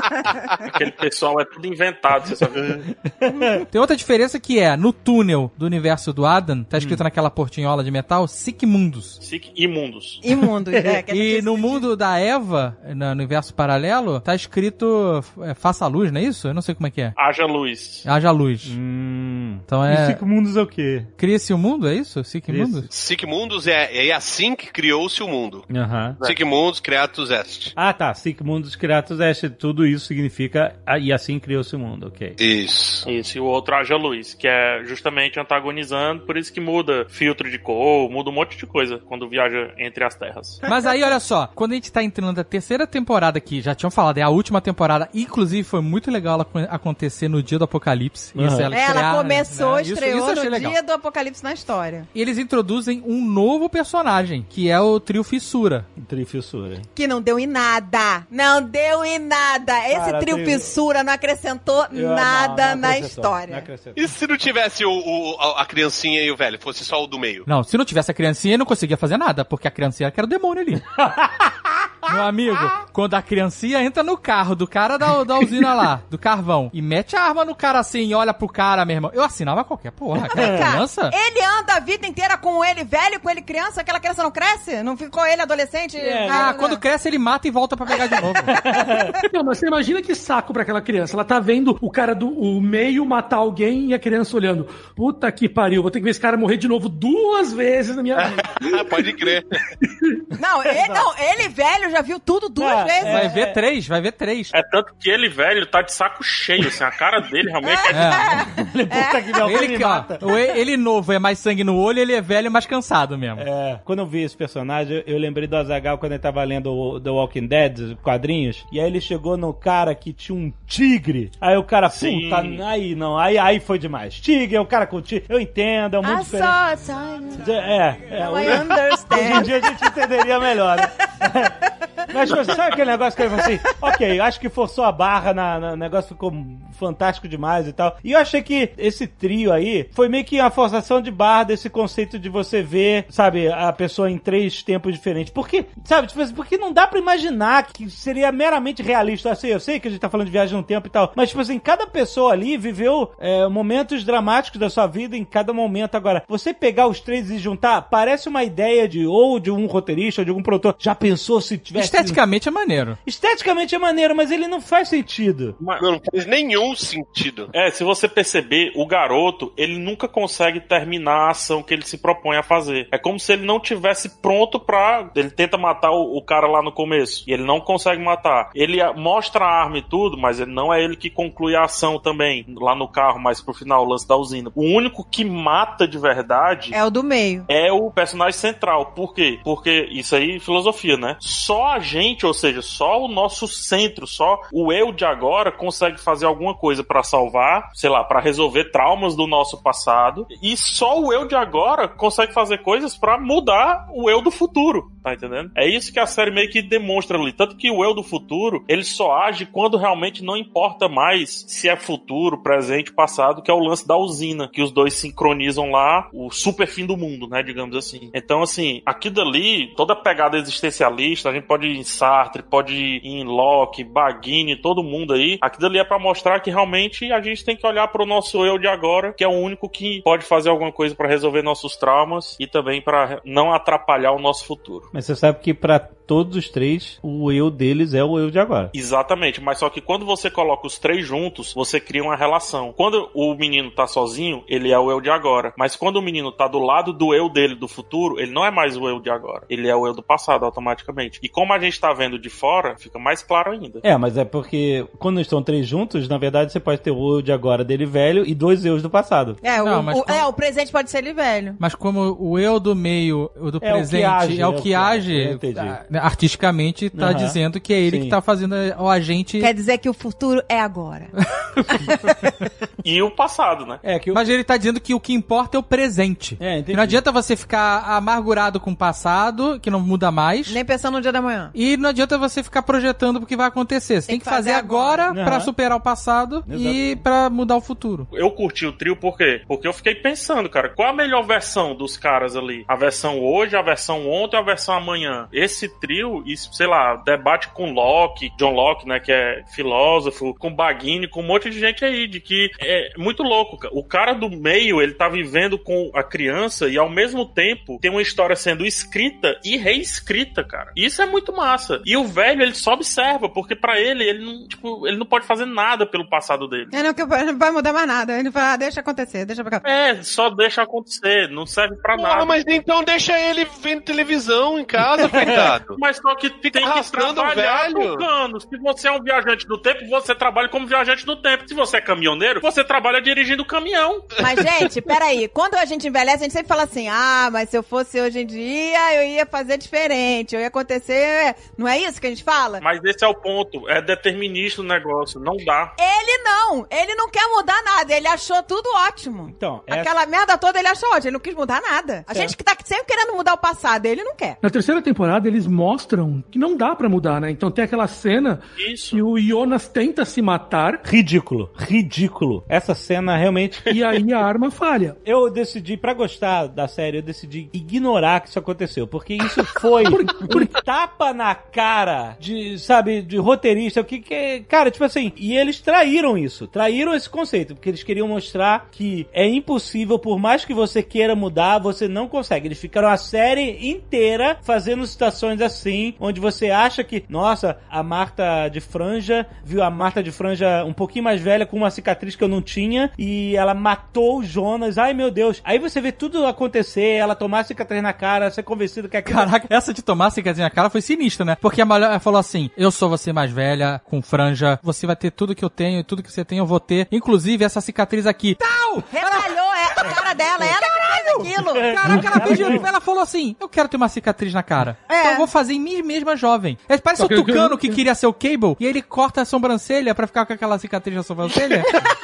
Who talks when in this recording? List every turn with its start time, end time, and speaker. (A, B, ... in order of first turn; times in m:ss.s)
0:00.7-0:02.9 A
0:03.1-0:03.6 B
0:03.7-0:09.2 C
0:06.8-0:07.0 B
0:09.2-0:10.2 A
0:10.2-0:11.9 D
0:10.8-0:11.0 B
0:11.1-0:17.2 C
0:17.2-0:18.1 A
0:18.0-0:18.8 C
0:18.6-0:21.1 B
0:19.7-0:20.2 C
0:21.2-0:22.9 C
0:22.5-0:22.9 B
0:22.9-0:25.7 E
0:25.7-0:26.2 B
0:26.2-0:27.7 E
0:27.8-0:32.4 B
0:32.4-0:33.1 E
0:33.0-0:40.6 A
0:40.7-0:50.8 C
0:48.4-0:48.7 B
0:48.7-0:52.1 D
0:52.1-0:55.9 C
0:56.0-0:56.9 B
0:57.0-1:03.7 D
0:59.9-1:00.8 B
1:01.9-1:04.1 B
1:04.0-1:07.5 E
1:07.5-1:10.9 C
1:11.0-1:12.7 B
1:12.1-1:21.2 C
1:20.3-1:26.8 D
1:20.3-1:20.6 B
1:26.0-1:26.5 B
1:26.3-1:28.6 C
1:28.5-1:29.2 B
1:28.7-1:29.2 D
1:29.3-1:39.1 F
1:38.2-1:39.5 E
1:39.9-1:40.3 F
1:40.4-1:43.3 D
1:40.7-1:41.1 B
1:42.6-1:43.6 B
1:43.0-1:44.5 C
1:44.5-1:48.3 A
1:47.7-1:49.2 D
1:47.9-1:48.3 C
1:48.5-1:50.3 B
1:49.4-1:53.5 C
1:53.4-2:06.6 B
2:01.9-2:02.6 A
2:06.0-2:07.4 D
2:07.4-2:42.2 B
2:08.1-2:09.8 D
2:41.8-2:43.0 C
2:43.0-2:45.6 B
2:45.8-2:47.5 E
2:47.5-3:06.8 A
3:06.7-3:07.5 D
3:07.5-3:54.9 A
3:54.9-3:58.7 B
3:58.7-4:13.8 A
4:13.8-4:19.4 B
4:19.4-4:21.6 D
4:19.6-4:20.3 C
4:21.6-4:29.5 C
4:23.6-4:25.8 B
4:26.9-4:28.2 B
4:29.4-4:31.1 D
4:31.6-4:31.9 C
4:31.7-4:32.3 D
4:32.8-4:33.8 A
4:33.8-4:34.2 B
4:34.1-4:40.6 C
4:36.4-4:37.0 B
4:40.5-4:41.5 D
4:41.5-4:48.1 C
4:44.1-4:45.1 D
4:45.1-4:45.5 B
4:46.5-4:47.0 B
4:48.1-5:16.7 A
5:16.7-5:19.6 D
5:19.6-5:22.4 A
5:22.0-5:25.8 E
5:25.8-5:34.1 A
5:26.5-5:28.0 E
5:34.2-5:42.6 D
5:34.3-5:34.6 E
5:42.6-5:45.7 A
5:45.8-5:54.4 D
5:49.3-5:50.0 B
5:52.1-5:52.4 B
5:54.4-5:58.4 F
5:58.6-5:59.0 A
5:58.9-6:00.8 F
6:00.8-6:03.7 B
6:03.7-6:05.0 F
6:05.0-6:39.3 B
6:09.8-6:10.6 F
6:39.1-6:49.3 C
6:48.9-6:52.6 D
6:50.6-7:01.9 C
6:51.2-6:52.6 B
6:54.9-6:55.3 D
6:57.0-6:57.8 F